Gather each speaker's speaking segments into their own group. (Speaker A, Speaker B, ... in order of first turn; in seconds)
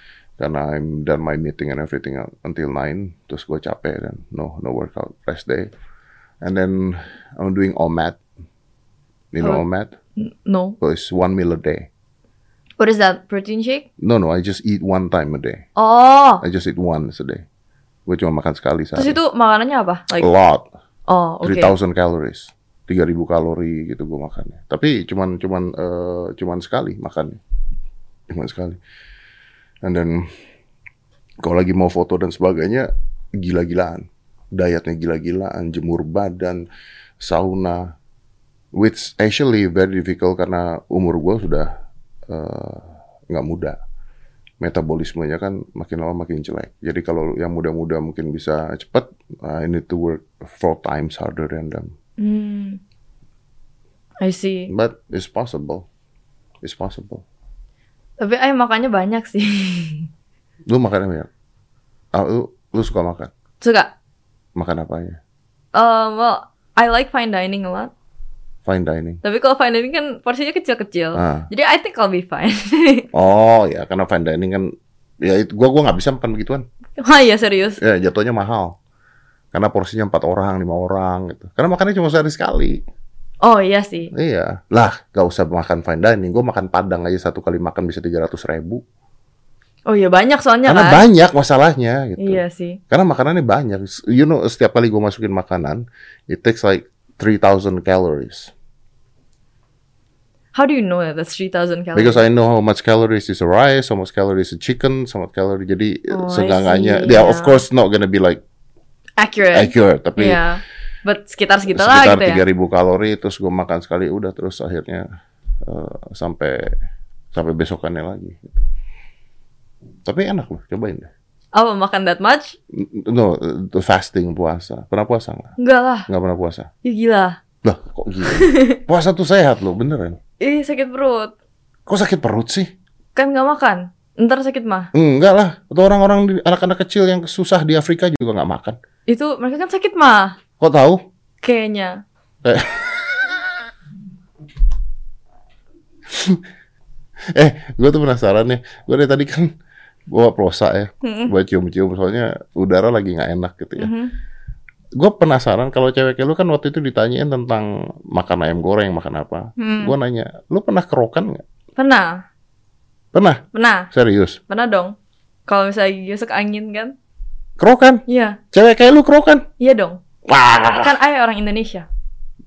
Speaker A: 0.4-5.7, 6.4-8.2, 9.3-9.9, 10.8-11.9, 14.0-15.6, 16.4-17.4, 18.1-19.2, 20.1-20.7, 21.4-27.4, 28.3-28.8, 29.8-30.2, 31.4-36.6, 37.2-37.9, 38.7-41.7, 42.3-43.8, 44.6-51.9, 54.7-55.8, 56.6-57.2, 60.7-61.3, 62.1-63.3, 64.5-65.2, 68.7-69.2, 71.1-71.5, 73.1-74.7, 75.2-76.6, 77.8-78.7, 79.5-82.8, 84.1-88.8, 90.7-98.5, 101.9-108.4, 109.5-110.4, 111.7-115.0, 115.6-116.7, 117.3-118.6, 120.0-121.1, 122.7-125.5, 126.1-126.7, 127.6-130.2, 131.9-132.7, 134.9-138.8, 140.6-141.0, 142.4-143.4, 146.1-146.4, 147.3-149.5, 150.1-153.9, 154.9-161.4, 163.1-164.4, 167.6-169.4, 170.3-170.9
Speaker B: 10.2-10.8, 12.8-13.8, 15.8-16.4, 18.9-20.3, 21.1-21.7, 52.2-52.8, 54.2-54.7, 58.2-60.1, 63.6-63.9, 65.7-67.9, 69.2-73.0, 77.0-77.8, 83.4-84.1, 89.9-91.0, 92.2-92.8, 100.5-102.2, 106.1-107.6, 109.2-112.4, 121.5-122.5, 125.6-126.1, 126.8-127.4, 128.4-128.8, 130.4-131.3, 133.1-134.9, 139.1-140.4, 141.4-142.0, 151.0-151.3, 153.8-154.1, 159.6-159.9, 161.8-162.2, 163.5-163.9, 164.5-164.9, 165.5-166.9, 168.1-168.4, 169.6-170.0, 170.8-171.9